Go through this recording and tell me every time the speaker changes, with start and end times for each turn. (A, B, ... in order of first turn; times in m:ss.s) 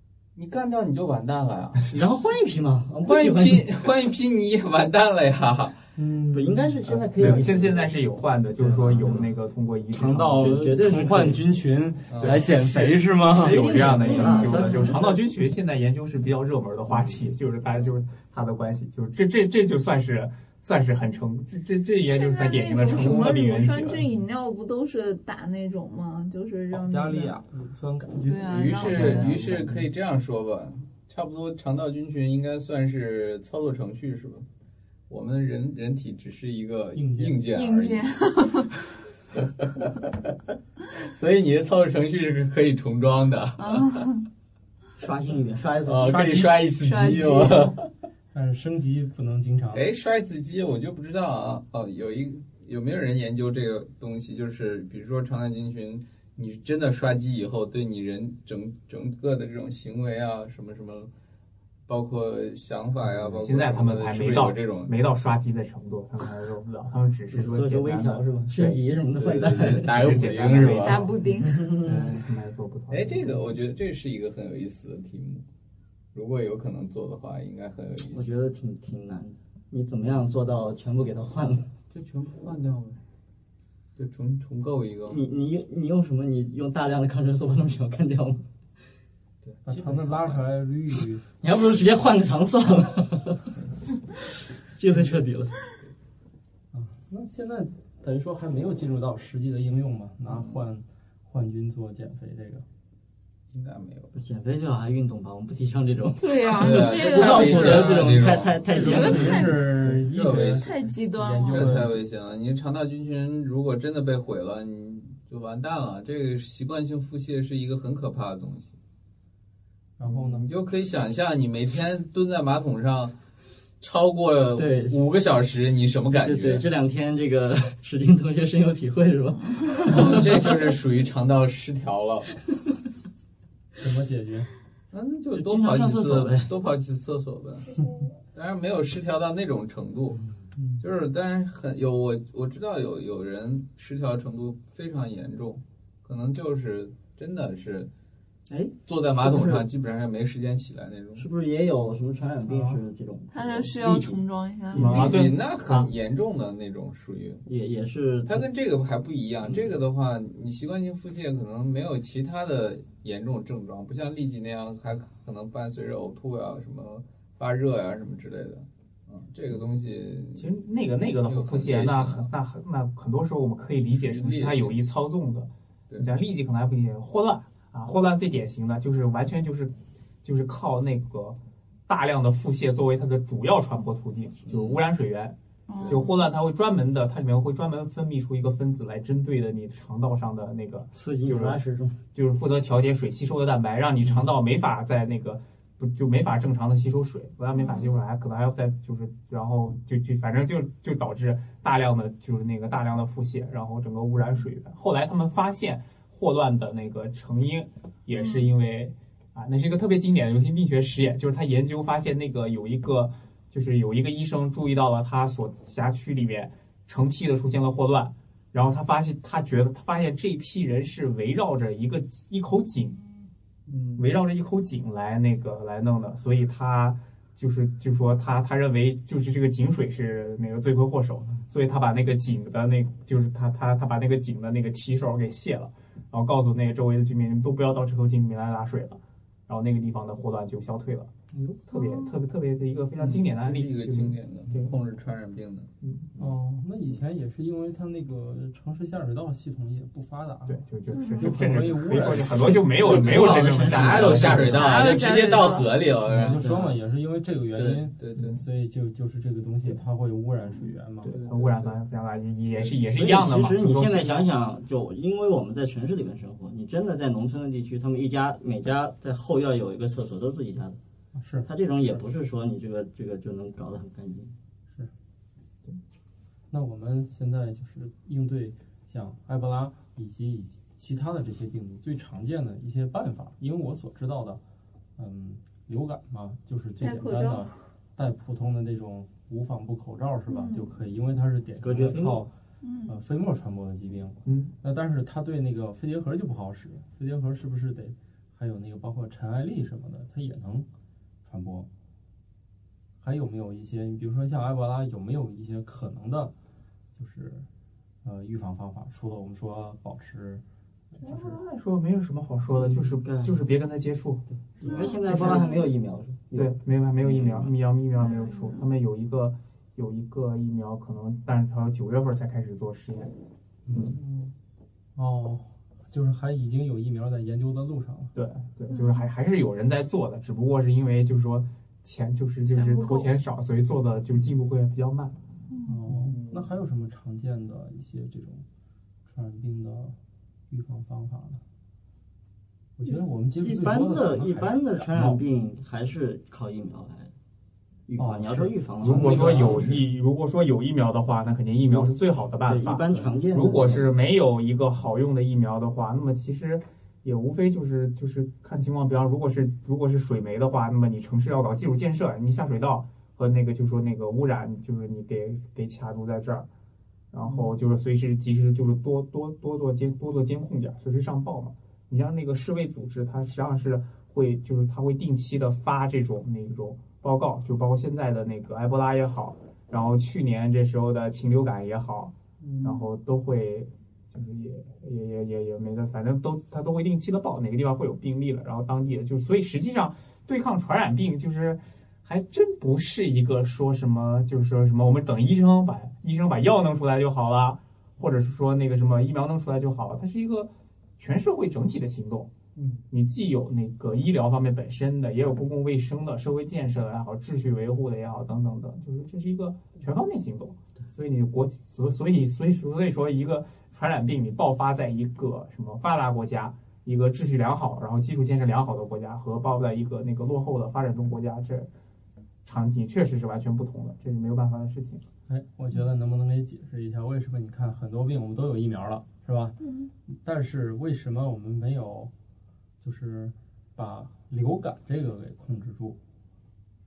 0:00.4-0:01.9 A
0:01.9-0:03.7 B
0:03.0-0:05.8 A
0:06.0-0:06.8 C
0:06.3-0:07.9 B
0:06.9-0:10.8 D
0:08.6-0:09.3 B
0:09.9-0:14.1 C
0:10.2-0:11.5 B
0:12.1-0:12.6 A
0:12.2-0:12.7 D
0:13.2-0:24.0 D
0:13.3-0:15.2 B
0:14.1-0:14.8 E
0:22.0-0:27.4 E
0:26.7-0:29.9 C
0:28.2-0:29.4 E
0:28.5-0:34.5 A
0:35.1-0:38.1 A
0:37.0-0:37.5 C
0:37.5-0:38.8 E
0:39.6-0:40.1 A
0:40.9-0:44.0 A
0:43.6-0:44.2 E
0:45.0-0:46.3 B
0:45.9-0:47.9 A
0:46.1-0:47.4 C
0:46.8-0:47.7 E
0:48.3-0:49.9 C
0:49.7-1:01.1 A
1:01.9-1:04.9 A
1:03.2-1:08.8 D
1:07.3-1:10.3 B
1:09.1-1:11.1 A
1:09.6-1:11.2 D
1:10.8-1:11.7 E
1:11.4-1:12.2 B
1:11.8-1:13.5 D
1:12.9-1:15.5 A
1:16.1-1:18.3 A
1:18.1-1:21.7 B
1:21.9-1:23.0 A
1:24.0-1:25.2 A
1:25.1-1:28.5 B
1:29.4-1:30.4 A
1:29.6-1:31.2 C
1:31.4-1:33.5 B
1:34.7-1:35.6 B
1:36.7-1:42.6 C
1:40.3-1:40.6 A
1:43.5-1:44.1 A
1:44.1-1:49.5 B
1:46.2-1:47.9 E
1:46.5-1:48.7 A
1:47.2-1:52.0 C
1:48.8-1:49.7 E
1:49.6-1:50.8 A
1:50.6-1:51.8 E
1:51.4-1:58.8 A
2:00.0-2:00.5 C
2:00.0-2:03.2 A
2:03.8-2:06.7 A
2:04.6-2:05.0 B
2:06.2-2:10.5 B
2:09.8-2:12.4 A
2:13.8-2:14.5 C
2:14.9-2:20.2 A
2:15.3-2:16.5 B
2:20.6-2:20.8 C
2:20.8-2:27.9 A
2:28.5-2:29.6 B
2:28.8-2:31.2 A
2:31.2-2:34.2 B
2:32.5-2:32.8 C
2:33.3-2:35.1 E
2:34.7-2:35.9 D
2:34.8-2:37.4 A
2:37.5-2:38.4 B
2:38.3-2:50.5 A
2:39.5-2:39.7 B
2:50.4-2:59.7 D
2:51.2-2:52.3 A
2:53.9-2:54.8 A
3:00.2-3:11.6 D
3:04.5-3:04.8 A
3:05.7-3:06.1 E
3:05.8-3:06.0 A
3:10.9-3:12.0 B
3:12.2-3:43.0 D
3:17.6-3:17.9 E
3:28.2-3:28.5 E
3:43.7-3:44.1 A
3:44.0-4:01.1 D
4:01.7-4:04.7 D
4:01.7-4:02.2 E
4:03.0-4:06.3 A
4:05.8-4:06.1 D
4:06.2-4:10.6 C
4:10.5-4:14.6 D
4:10.9-4:11.4 E
4:11.2-4:13.6 C
4:12.6-4:14.9 B
4:12.8-4:16.4 A
4:14.5-4:15.7 E
4:16.1-4:21.2 C
4:16.3-4:16.8 B
4:17.5-4:18.4 A
4:21.0-4:24.2 D
4:21.1-4:21.8 A
4:22.9-4:30.8 B
4:31.2-4:31.5 C
4:31.5-4:34.3 B
4:36.5-4:44.4 C
4:45.0-4:52.3 C
4:46.8-4:47.5 E
4:50.3-4:50.7 E
4:51.6-4:52.2 B
4:52.6-4:53.0 E
4:52.9-5:00.7 C
4:54.3-4:54.5 D
5:01.2-5:01.7 C
5:03.0-5:06.3 C
5:07.0-5:07.5 C
5:08.0-5:10.4 C
5:10.9-5:11.3 C
5:11.0-5:14.2 D
5:12.5-5:13.4 B
5:14.6-5:17.5 B
5:14.6-5:15.2 C
5:14.6-5:15.7 E
5:15.1-5:15.5 D
5:16.4-5:23.1 D
5:18.0-5:18.6 E
5:24.0-5:24.3 A
5:25.0-5:28.1 C
5:28.2-5:35.2 D
5:28.7-5:29.0 E
5:32.5-5:33.1 E
5:35.5-5:35.9 E
5:35.6-5:38.4 C
5:36.0-5:36.5 A
5:39.1-5:40.0 C
5:40.5-5:41.4 C
5:42.8-5:45.2 C
5:43.4-5:47.1 B
5:47.9-5:49.8 B
5:48.0-5:49.6 C
5:48.8-6:06.5 D
5:51.7-5:53.9 B
6:07.1-6:42.3 D
6:07.2-6:07.5 A
6:22.4-6:22.8 A
6:42.6-6:42.8 A
6:42.9-7:01.7 D
7:02.4-7:05.0 D
7:05.3-7:09.6 C
7:09.6-7:09.9 E
7:10.1-7:12.1 C
7:12.8-7:16.0 C